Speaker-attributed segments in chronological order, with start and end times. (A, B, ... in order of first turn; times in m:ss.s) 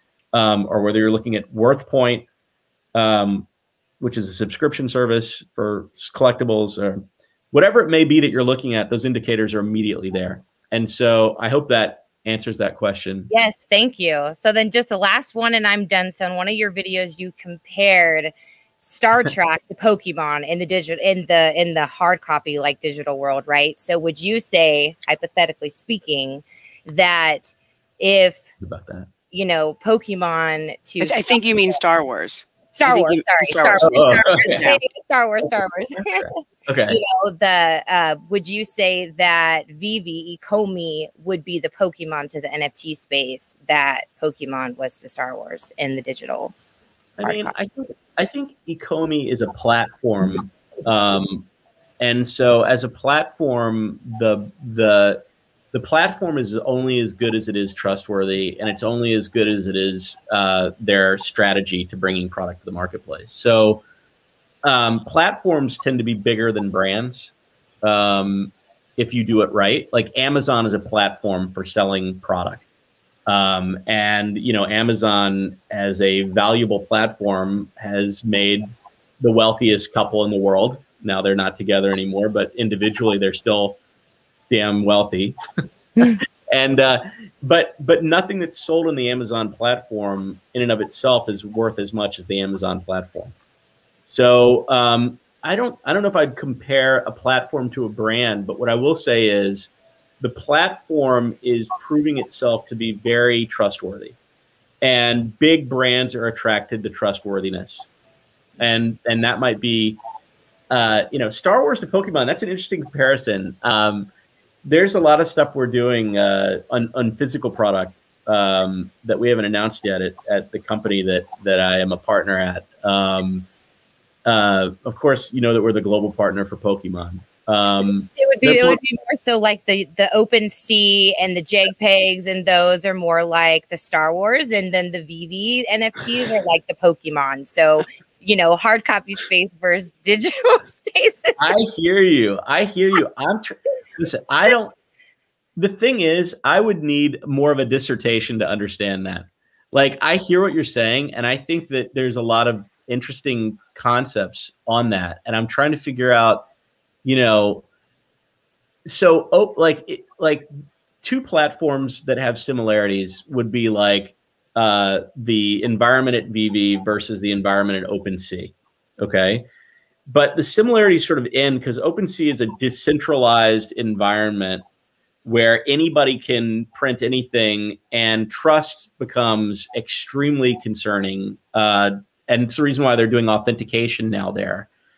0:00.3-0:02.2 A
0:02.9-0:03.5 A
0:04.0-0:13.3 A
0:13.3-0:28.4 B
0:28.6-0:29.1 A
0:29.3-0:31.4 B
0:31.0-0:34.8 C
0:32.7-0:36.3 B
0:33.8-0:34.7 A
0:36.0-0:37.0 A
0:36.9-0:46.5 B
0:47.2-0:51.4 A
0:47.2-0:47.5 B
0:52.0-1:03.8 A
1:04.6-1:12.6 A
1:13.2-1:23.8 A
1:24.5-1:25.4 A
1:26.0-1:33.3 A
1:34.0-1:44.2 A
1:44.8-1:47.9 A
1:48.6-1:50.0 A
1:50.7-1:54.1 A
1:54.6-2:03.5 A
2:04.2-2:08.8 A
2:07.8-2:21.6 B
2:21.4-2:24.7 A
2:25.6-2:36.4 A
2:37.0-2:37.6 A
2:38.8-2:40.5 A
2:41.0-2:49.4 A
2:50.1-2:54.6 A
2:55.2-3:04.7 A